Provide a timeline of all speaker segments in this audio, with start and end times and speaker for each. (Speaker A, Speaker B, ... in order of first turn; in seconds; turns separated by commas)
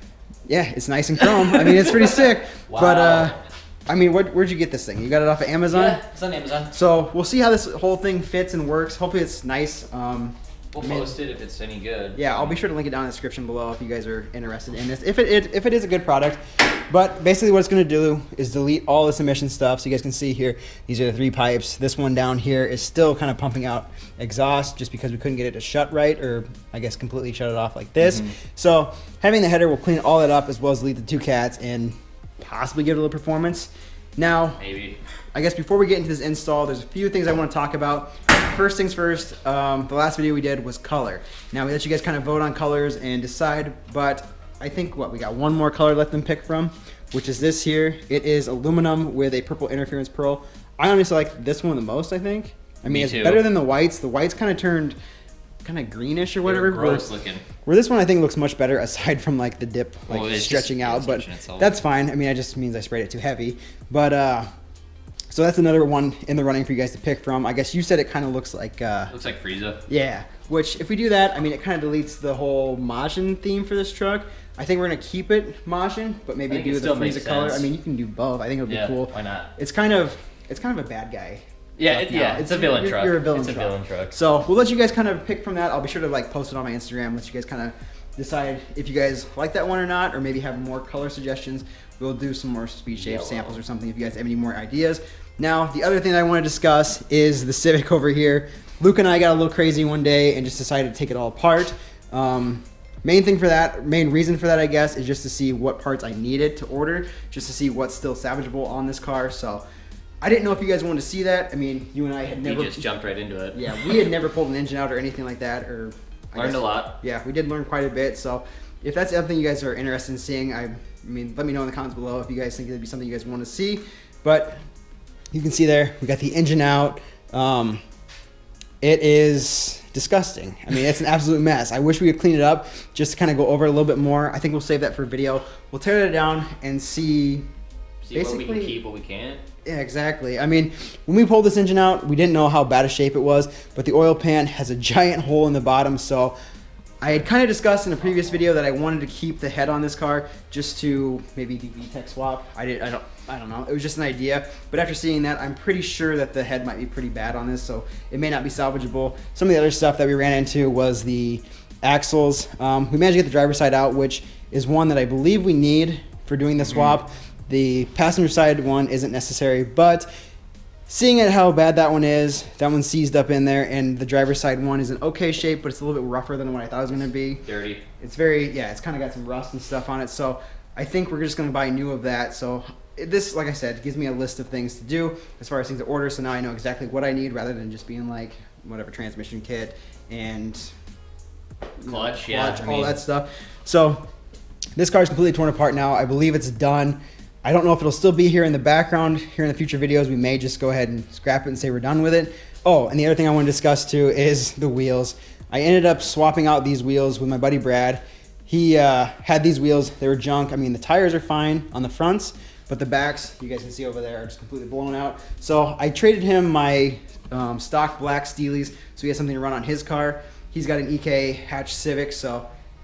Speaker A: 0.5-3.4, Speaker B: 1.2-3.5, Speaker A: 3.9-6.0, Speaker B: 5.7-6.7, Speaker A: 6.7-11.1, Speaker B: 10.7-12.6, Speaker A: 12.1-34.6, Speaker B: 28.0-28.3, Speaker B: 34.6-35.0, Speaker A: 35.3-54.9, Speaker B: 52.9-53.5, Speaker A: 55.6-57.1, Speaker B: 56.4-57.4, Speaker A: 57.6-64.5, Speaker B: 60.1-61.8, Speaker A: 65.3-69.1, Speaker B: 69.1-69.8, Speaker A: 69.9-109.6, Speaker B: 76.5-77.7, Speaker B: 78.7-79.5, Speaker B: 81.8-84.2, Speaker B: 93.0-93.6, Speaker A: 110.2-112.9, Speaker B: 112.3-114.0, Speaker A: 113.5-124.6, Speaker B: 116.3-117.0, Speaker A: 125.3-127.8, Speaker A: 128.8-137.5, Speaker B: 138.0-139.4, Speaker A: 138.1-138.8, Speaker A: 139.7-146.3, Speaker A: 147.0-170.1, Speaker A: 170.9-177.4, Speaker B: 177.4-177.8, Speaker A: 178.0-190.7, Speaker A: 191.8-194.0, Speaker B: 191.8-193.0, Speaker A: 194.8-222.5